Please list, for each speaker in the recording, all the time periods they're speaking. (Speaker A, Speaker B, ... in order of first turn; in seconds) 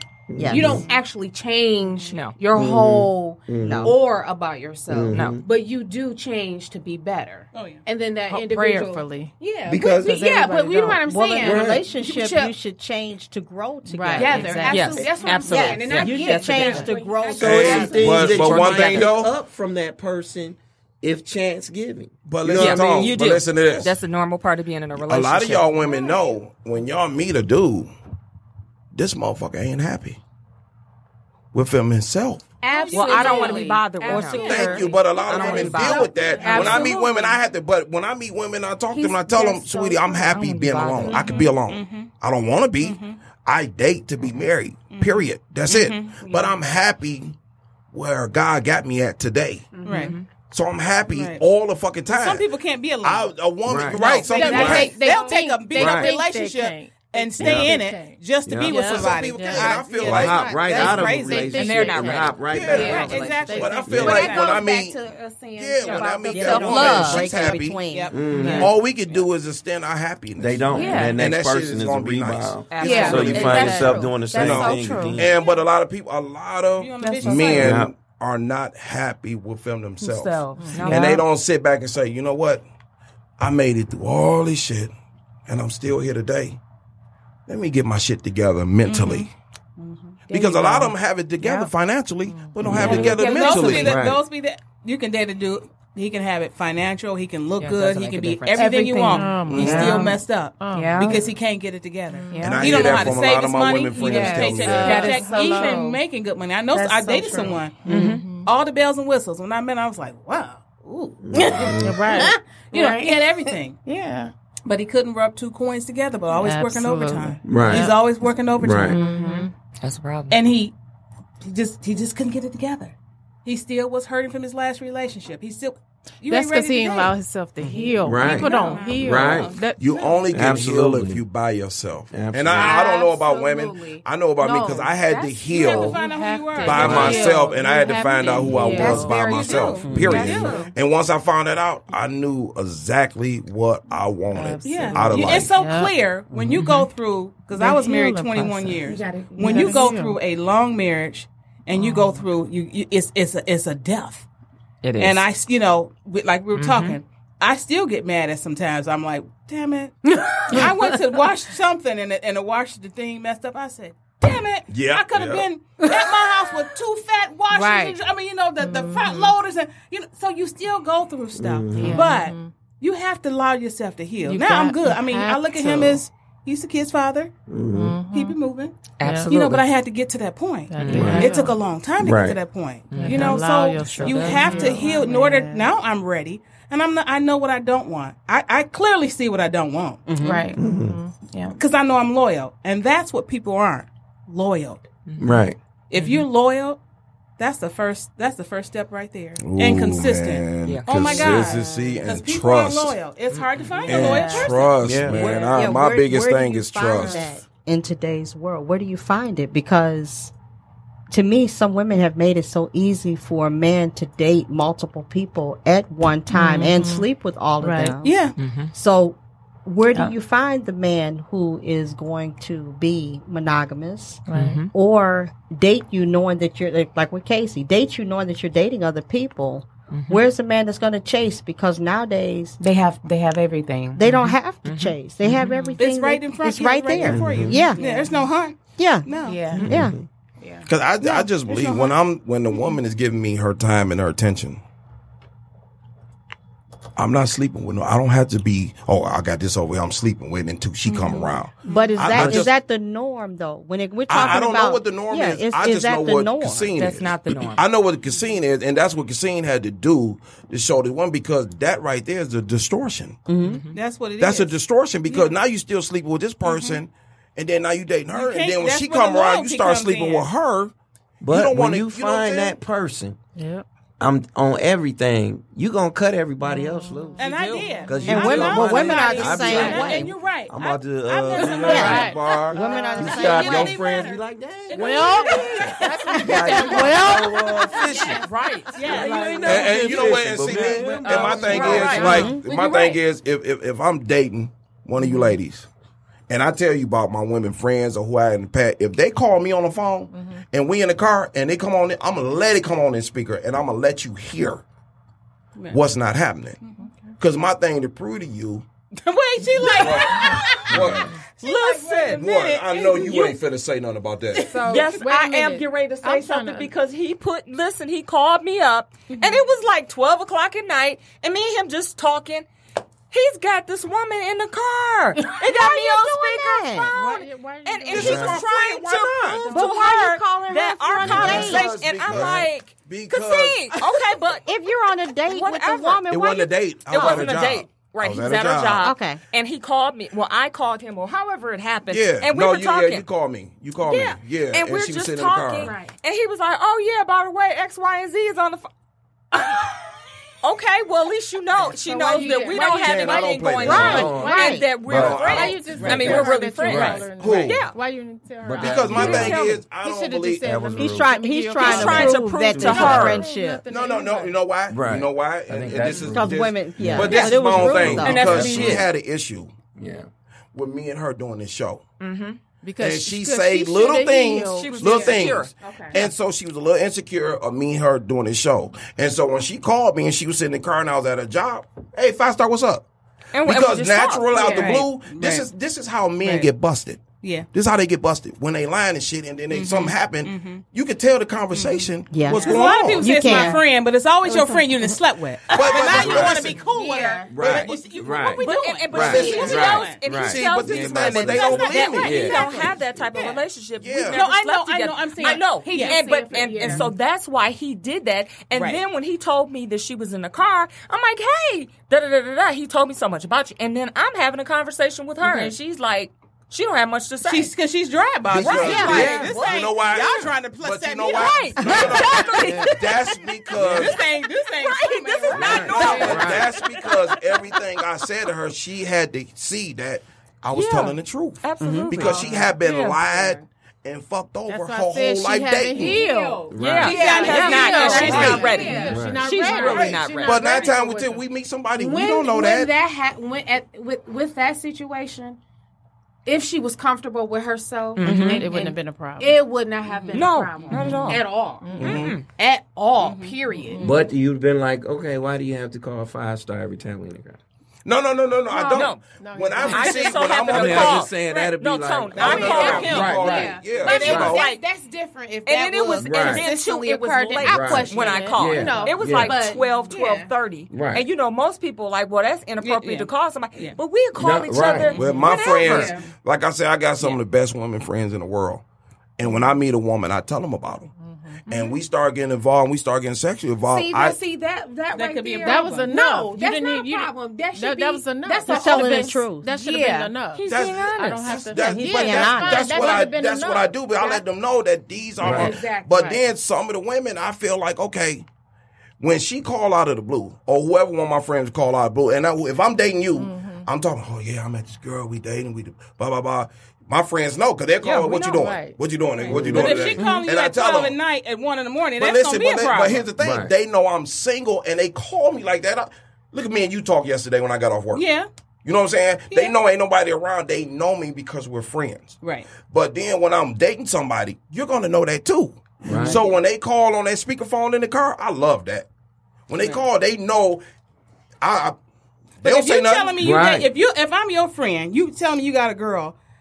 Speaker A: 0.3-0.9, 2.5-4.0, 4.9-5.4, 9.7-10.2, 11.4-11.9, 17.3-23.3, 53.6-54.3, 55.8-56.2, 57.4-57.8, 58.5-59.0, 60.0-63.0, 63.9-64.2, 68.1-68.7, 70.4-75.4, 77.4-77.9, 92.6-94.2, 111.2-112.1, 117.4-117.9, 118.6-119.0, 128.0-129.5, 130.3-131.2, 132.1-132.8, 136.7-137.4, 139.9-140.4, 171.4-172.2, 175.6-176.0, 177.5-178.0, 180.9-181.4, 182.0-182.4, 190.6-191.0, 195.2-195.6, 204.8-205.4, 237.0-237.7, 239.6-240.1, 252.1-252.4, 271.2-273.2, 274.0-288.2, 288.8-292.0, 310.7-311.1, 327.9-328.4, 331.0-332.5, 353.6-357.1, 358.4-359.4, 360.4-361.1, 361.6-363.1, 364.7-368.9, 369.8-370.1, 395.9-396.5, 397.3-402.7, 418.3-419.3, 422.4-422.8, 423.6-423.9, 425.3-426.5, 436.5-437.0, 438.1-439.3, 453.8-457.4, 460.4-464.4, 466.0-466.5, 467.4-469.4, 470.7-471.1, 474.1-474.9, 495.2-495.6, 509.3-510.2, 513.2-513.5, 525.8-526.2, 533.2-533.7
Speaker B: 0.4-0.8, 3.6-4.0, 11.0-14.6, 15.5-19.1, 34.0-35.0, 66.3-68.2, 190.1-190.4, 205.5-210.3, 211.1-218.2, 218.7-232.6, 233.9-237.8, 238.8-239.1, 239.6-239.9, 251.7-256.7, 263.3-263.6, 278.1-280.1, 281.6-283.7, 292.0-292.4, 325.4-326.9, 329.5-331.7, 334.4-337.3, 338.8-339.2, 353.6-354.7, 360.8-363.6, 366.0-368.6, 392.1-393.6, 421.6-421.9, 431.6-432.0, 448.1-448.4, 488.5-489.5, 491.6-493.1
Speaker C: 0.4-12.6, 14.1-18.8, 25.8-26.2, 32.6-37.1, 49.7-50.1, 54.5-55.4, 62.7-67.6, 68.3-68.7, 70.7-71.2, 72.7-74.7, 80.0-81.1, 89.8-90.2, 93.1-93.5, 98.5-100.2, 100.7-101.2, 102.3-103.2, 104.0-106.0, 106.7-108.1, 111.3-113.5, 118.8-119.5, 127.7-129.5, 132.5-136.0, 136.6-137.1, 138.2-140.7, 148.8-150.0, 160.4-160.7, 184.1-184.9, 190.2-190.6, 191.2-191.6, 201.4-202.0, 203.9-204.5, 232.6-234.1, 237.7-238.3, 239.2-239.7, 240.4-240.7, 282.6-284.2, 285.1-286.8, 287.6-288.8, 291.0-293.0, 343.8-344.1, 345.6-345.9, 351.7-353.2, 384.4-384.7, 393.2-393.6, 395.5-395.9, 396.5-397.8, 405.2-406.9, 435.7-440.7, 441.8-445.4, 446.2-454.0, 462.1-470.3, 474.9-476.1, 483.7-490.7, 495.2-496.2
Speaker D: 2.1-2.4, 14.6-16.8, 18.8-19.1, 22.5-25.7, 32.9-37.0, 38.9-41.4, 49.9-50.3, 61.5-63.7, 80.7-81.2, 97.6-98.7, 99.7-100.0, 107.9-108.3, 119.8-120.4, 146.6-146.9, 154.8-155.2, 156.6-157.0, 179.0-179.6, 180.8-181.3, 182.9-184.4, 195.1-196.3, 200.6-201.4, 203.3-204.1, 218.4-218.7, 224.3-224.7, 229.9-230.2, 234.1-235.8, 239.6-239.9, 256.8-257.6, 263.4-263.8, 288.1-289.4, 291.5-292.4, 311.4-312.2, 313.0-313.4, 314.6-322.5, 323.1-334.6, 335.2-336.1, 336.9-343.1, 344.5-348.7, 350.4-357.7, 358.9-359.6, 361.6-363.2, 367.1-367.4, 368.0-368.4, 372.0-372.4, 374.3-375.5, 383.3-384.8, 398.4-417.5, 418.5-419.7, 421.1-423.2, 424.0-427.1, 430.5-433.1, 436.6-440.6, 447.9-448.5, 450.1-451.3, 451.8-452.2, 458.7-459.0, 459.6-464.6, 465.4-476.0, 481.5-481.8, 490.4-491.4
Speaker E: 7.5-7.8, 32.7-33.6, 35.8-36.9, 41.4-42.1, 42.8-43.2, 44.9-46.5, 49.8-50.1, 51.1-51.4, 52.1-53.3, 53.9-61.8, 62.7-64.7, 67.9-68.7, 76.8-77.8, 88.8-89.3, 92.7-111.5, 112.7-113.8, 114.6-119.0, 120.3-120.7, 121.4-122.9, 123.4-127.1, 128.2-129.4, 135.5-137.3, 139.1-140.7, 144.6-154.2, 155.0-177.3, 178.1-190.1, 191.6-194.8, 195.9-196.8, 197.4-204.7, 218.0-218.4, 235.8-239.6, 241.0-242.0, 250.8-252.3, 263.7-264.6, 265.1-265.3, 266.4-266.8, 268.1-270.3, 277.2-282.1, 284.7-285.9, 288.7-291.7, 308.9-313.4, 314.4-315.0, 319.1-319.4, 355.7-356.2, 367.1-367.4, 368.0-368.4, 375.6-376.1, 384.4-385.5, 387.2-387.5, 389.5-390.6, 391.5-400.1, 401.1-403.4, 404.1-406.1, 406.6-406.9, 408.5-408.8, 415.2-415.5, 417.2-422.3, 423.6-426.2, 436.8-438.8, 449.8-450.2, 453.0-453.4, 462.1-463.2, 472.6-473.8, 474.7-475.9, 484.9-485.9, 507.8-508.4, 509.2-513.1, 517.9-518.3, 519.3-519.5, 522.2-522.5, 525.9-526.4, 529.5-529.9, 532.4-536.1
Speaker F: 8.3-11.0, 13.9-15.4, 16.6-16.9, 34.2-34.8, 36.4-37.0, 41.1-41.4, 54.3-64.0, 68.3-68.7, 70.7-71.2, 72.8-75.2, 77.0-77.3, 80.6-81.0, 90.3-91.7, 92.3-93.6, 99.1-101.3, 102.1-102.5, 104.5-106.0, 107.8-108.5, 111.7-112.8, 113.9-114.3, 116.4-117.9, 118.8-119.5, 126.2-130.1, 134.4-139.7, 144.3-145.9, 147.6-150.2, 151.7-152.2, 167.5-168.0, 168.6-169.3, 171.7-172.5, 174.3-175.8, 177.7-178.4, 179.0-179.3, 180.7-181.6, 182.9-185.7, 190.2-191.1, 216.3-217.1, 217.6-217.9, 224.3-224.6, 273.4-273.6, 276.4-279.7, 281.4-283.4, 284.7-287.5, 291.6-292.3, 300.1-300.4, 314.4-316.7, 326.9-328.2, 351.8-353.0, 354.0-364.4, 372.6-375.3, 386.2-386.5, 434.5-441.2, 448.3-449.4, 450.6-452.1, 453.6-454.1, 458.5-460.3, 467.9-469.0, 481.0-481.4, 485.4-494.2, 503.1-503.7, 508.2-508.8
Speaker G: 17.4-19.3, 22.2-24.0, 24.9-27.9, 28.9-30.2, 31.5-32.5, 34.4-47.3, 47.9-49.7, 50.5-52.4, 53.0-55.0, 58.6-60.5, 62.5-67.8, 68.5-82.6, 83.4-84.9, 85.5-86.6, 87.5-89.3, 90.3-94.0, 99.5-100.0, 102.4-105.1, 129.8-136.0, 136.6-145.5, 164.7-165.4, 199.4-203.0, 203.9-207.2, 240.7-244.6, 247.0-252.5, 254.1-263.2, 264.2-270.7, 271.3-272.6, 281.5-282.5, 286.3-288.2, 289.4-295.7, 296.3-304.6, 305.7-306.6, 307.2-308.6, 309.6-311.1, 312.0-314.6, 327.9-329.6, 331.0-333.8, 336.1-338.9, 341.9-345.8, 352.8-354.1, 354.9-355.8, 357.1-357.6, 358.6-360.8, 363.6-369.5, 370.5-371.8, 372.8-382.8, 383.4-393.1, 395.5-396.6, 398.9-402.6, 403.8-404.2, 418.3-424.0, 425.3-436.0, 438.1-438.4, 440.2-442.7, 451.8-452.1, 457.8-461.1, 462.2-464.4, 475.0-478.6, 479.2-480.9, 481.5-484.2, 490.5-498.2, 499.0-511.0, 512.0-518.0, 518.6-528.9, 529.5-530.6, 531.4-531.8, 532.4-533.3